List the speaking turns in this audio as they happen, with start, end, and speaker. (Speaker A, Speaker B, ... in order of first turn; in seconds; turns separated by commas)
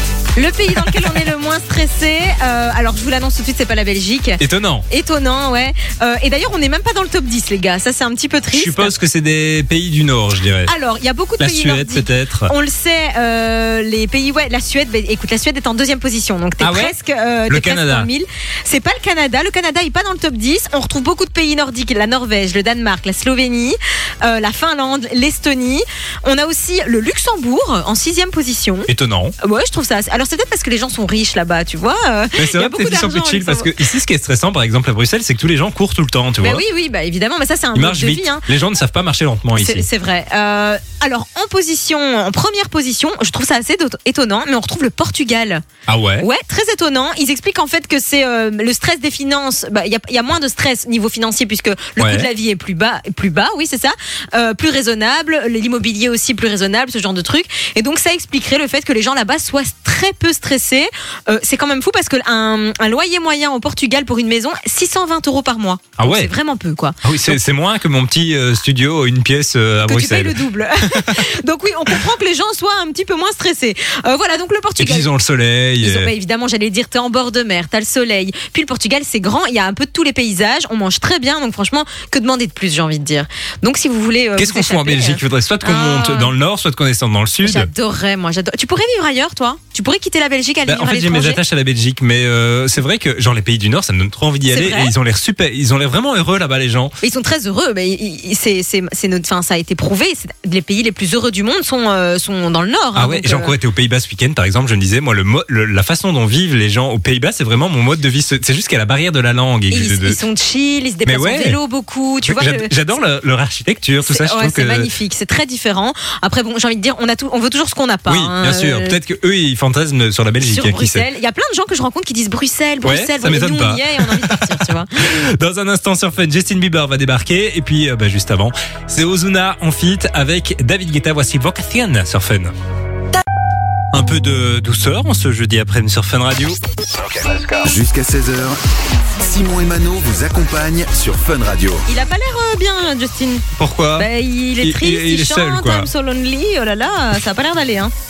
Speaker A: 0.3-8.9, Speaker B: 4.4-4.8, Speaker B: 8.5-10.7, Speaker A: 10.7-28.9, Speaker B: 11.4-12.5, Speaker B: 16.6-16.9, Speaker B: 17.5-18.1, Speaker B: 28.9-29.3, Speaker A: 29.4-33.7, Speaker B: 32.4-36.6, Speaker A: 36.4-38.4, Speaker B: 37.7-39.8, Speaker A: 39.5-45.6, Speaker B: 45.9-46.2, Speaker A: 46.2-67.4, Speaker B: 52.0-52.3, Speaker B: 66.0-66.3, Speaker B: 67.0-71.3, Speaker A: 69.8-75.1, Speaker B: 74.8-76.1, Speaker A: 75.8-86.3, Speaker B: 84.4-87.7, Speaker A: 87.4-91.4, Speaker B: 90.7-97.0, Speaker A: 94.5-94.9, Speaker A: 97.0-103.5, Speaker B: 102.9-110.2, Speaker A: 109.7-112.7, Speaker B: 111.0-111.6, Speaker B: 112.2-114.9, Speaker A: 114.0-119.0, Speaker B: 118.1-121.0, Speaker A: 120.4-124.9, Speaker B: 122.8-132.5, Speaker B: 133.9-136.6, Speaker C: 137.0-138.6, Speaker C: 139.2-141.8, Speaker A: 141.9-143.4, Speaker B: 143.6-144.1, Speaker A: 143.9-147.9, Speaker B: 144.6-145.9